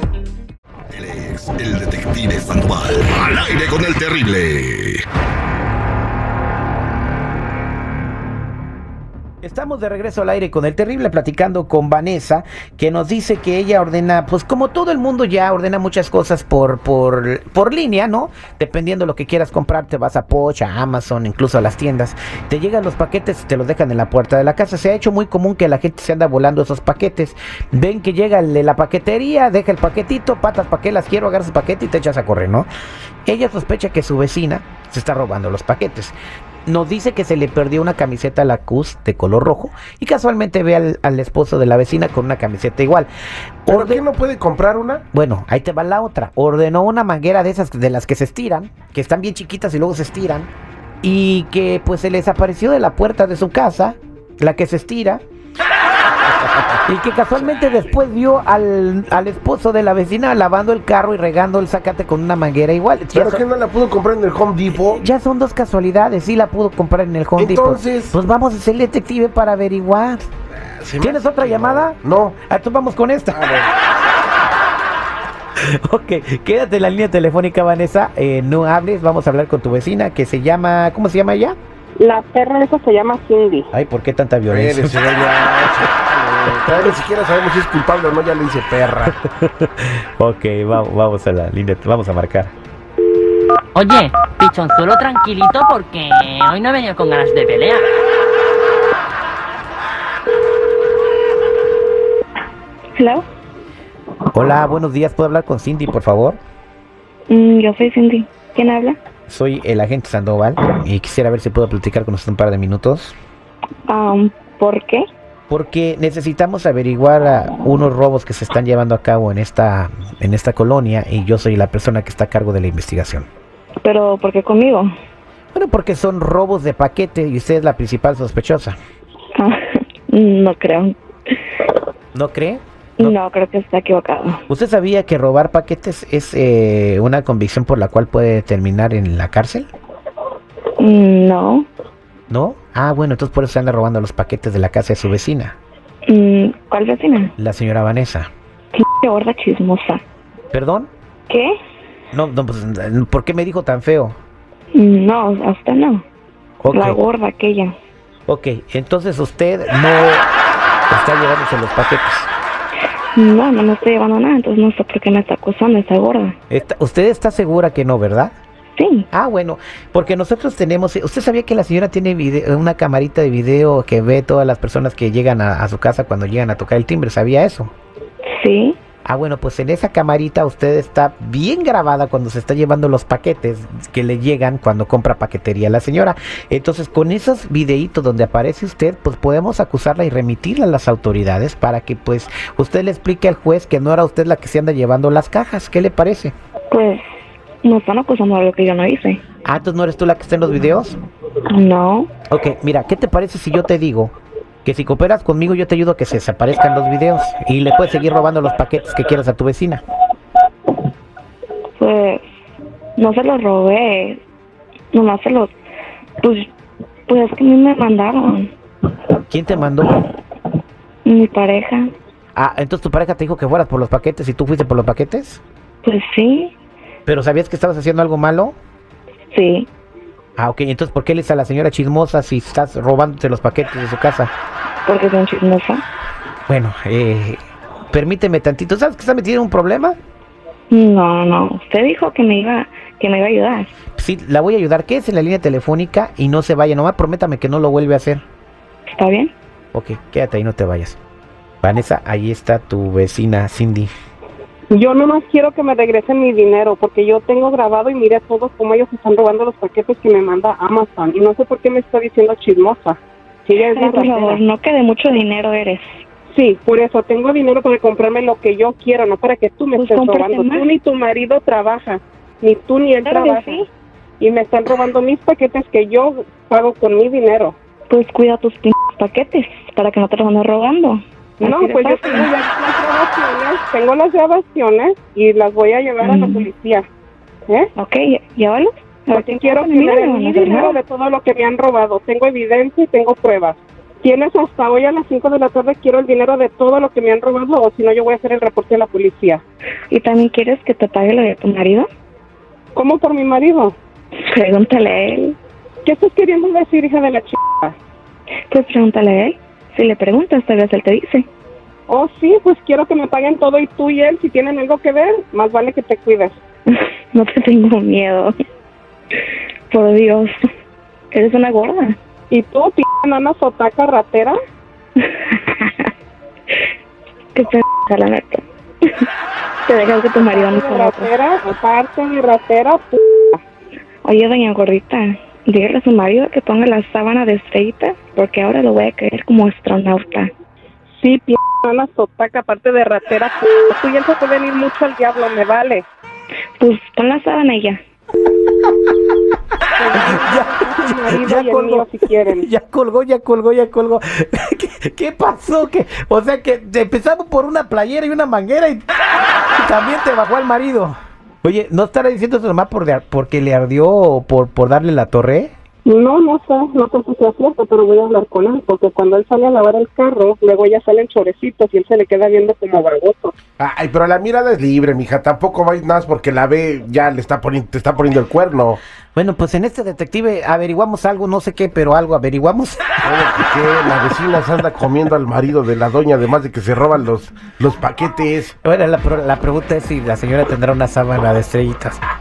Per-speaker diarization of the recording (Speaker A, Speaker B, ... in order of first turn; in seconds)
Speaker A: 0.9-5.0
Speaker B: 9.4-32.7, 33.3-36.1, 36.7-43.1, 43.7-44.0, 45.1-50.5, 51.0-55.2, 56.9-63.5, 64.8-70.3, 71.0-73.5, 75.6-81.6, 83.7-85.2, 86.6-86.9, 89.2-92.5, 104.3-106.4, 109.3-113.2, 115.5-123.3, 125.5-128.8, 132.1-133.2, 134.5-139.7, 142.3-145.6, 147.4-148.3, 150.5-150.9, 152.1-154.2, 156.6-157.0, 158.3-160.3, 160.9-162.3, 166.5-168.3, 169.1-177.7, 179.1-196.3, 199.4-201.0, 202.3-209.8, 219.3-220.0, 222.4-225.4, 227.1-228.6, 230.4-234.3, 236.5-240.0, 243.9-248.2, 249.7-251.0, 251.6-253.9, 349.9-358.9, 359.5-365.5, 379.1-383.0, 388.6-392.0
Speaker C: 43.7-45.0, 63.1-65.0, 67.4-68.2, 70.6-72.4, 73.3-73.7, 84.5-89.2, 373.6-378.8, 383.0-388.5
Speaker D: 82.0-83.7, 254.7-264.4, 266.3-273.7, 274.2-277.6, 281.4-286.9, 289.1-299.4, 302.8-303.8, 305.9-307.8, 311.9-316.4, 322.3-324.4, 330.2-333.4, 341.0-345.9, 349.8-352.5, 365.9-373.4
Speaker E: 93.8-97.9
Speaker F: 103.0-103.3, 107.3-109.0, 113.9-115.1, 123.8-124.9, 129.4-131.0, 133.0-134.4, 140.8-141.7, 146.1-147.3, 148.7-150.0, 151.3-151.6, 154.8-156.1, 156.7-157.7, 163.2-166.4, 168.8-169.1, 178.3-178.8, 196.7-197.0, 197.6-199.2, 201.5-202.1, 211.8-212.2, 213.0-214.2, 214.9-215.5, 216.2-216.5, 217.1-218.5, 221.1-221.9, 225.8-226.5, 229.3-229.7, 234.9-235.8, 240.7-243.7, 248.9-249.3, 263.7-265.9, 269.8-270.6, 273.1-273.7, 277.9-282.3, 286.0-286.5, 287.8-290.8, 299.9-301.9, 304.2-305.4, 308.5-311.3, 316.7-318.3, 319.7-320.4, 321.1-322.0, 325.0-325.9, 327.3-329.1, 329.7-331.1, 334.0-340.3, 346.6-347.8